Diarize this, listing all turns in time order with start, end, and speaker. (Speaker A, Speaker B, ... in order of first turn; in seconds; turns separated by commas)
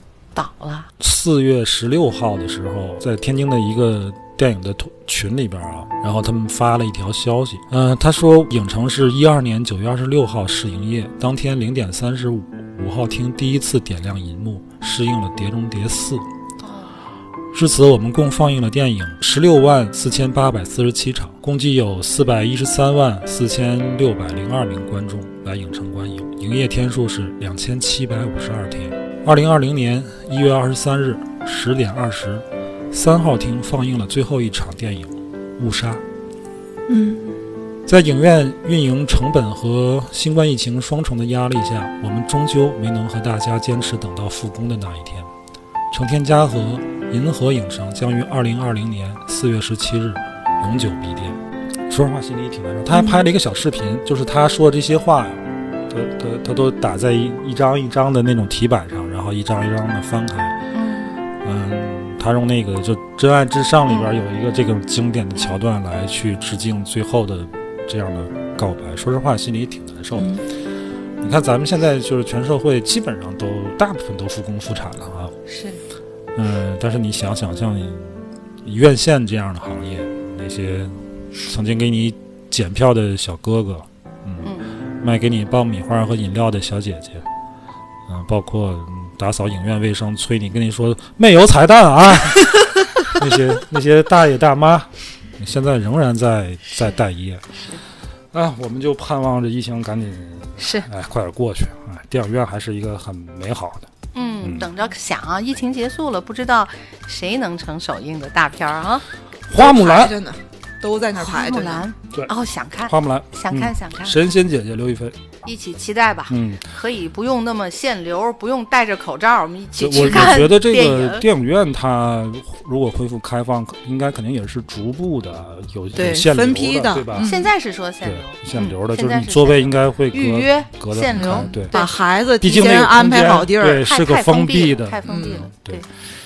Speaker A: 0.3-0.9, Speaker B: 1.0-16.3, Speaker A: 16.6-17.0, Speaker B: 17.5-36.0, Speaker C: 36.9-37.4, Speaker B: 37.9-45.3, Speaker B: 45.9-60.6, Speaker C: 52.9-53.2, Speaker A: 60.7-61.2, Speaker B: 61.4-70.4, Speaker C: 70.2-70.4, Speaker B: 71.2-75.3, Speaker A: 75.5-75.8, Speaker B: 76.3-87.2, Speaker B: 88.1-97.5, Speaker A: 96.7-97.0, Speaker B: 98.3-103.9, Speaker A: 100.6-100.8, Speaker A: 104.1-109.0, Speaker B: 104.4-104.7, Speaker B: 109.5-110.2, Speaker C: 109.6-111.9, Speaker A: 111.2-114.2, Speaker B: 112.8-115.3, Speaker A: 115.4-121.2, Speaker B: 116.3-116.6, Speaker B: 119.8-127.3, Speaker C: 126.0-127.5, Speaker A: 127.2-131.9, Speaker B: 128.0-131.7, Speaker C: 131.1-133.8, Speaker B: 132.4-135.8, Speaker A: 133.8-135.8, Speaker C: 135.0-135.5